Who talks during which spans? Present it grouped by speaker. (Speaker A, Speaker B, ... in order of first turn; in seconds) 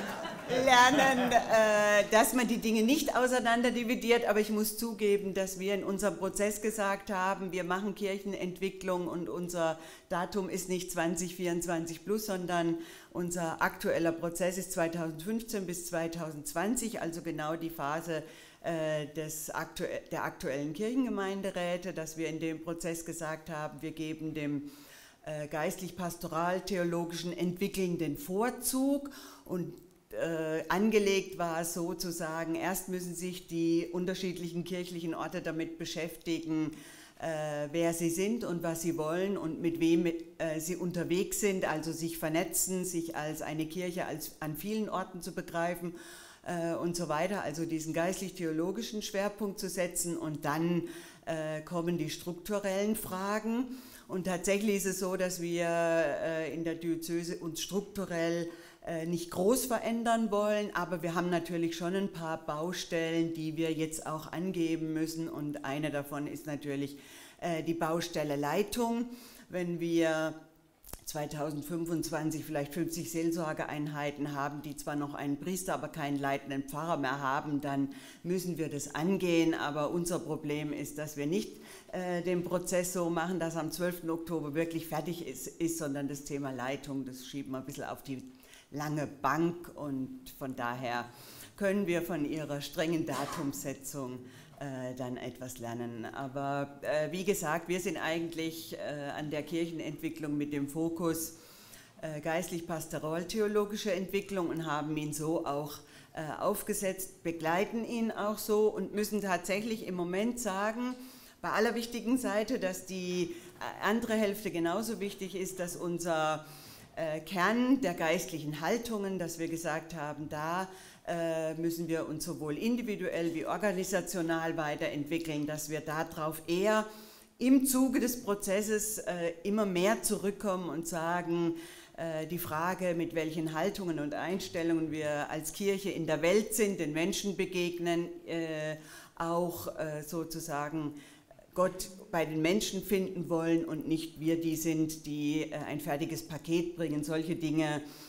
Speaker A: 0.4-24.6, 25.2-70.3, 71.0-101.3, 102.0-116.4, 116.9-126.8, 127.4-140.9, 141.5-147.8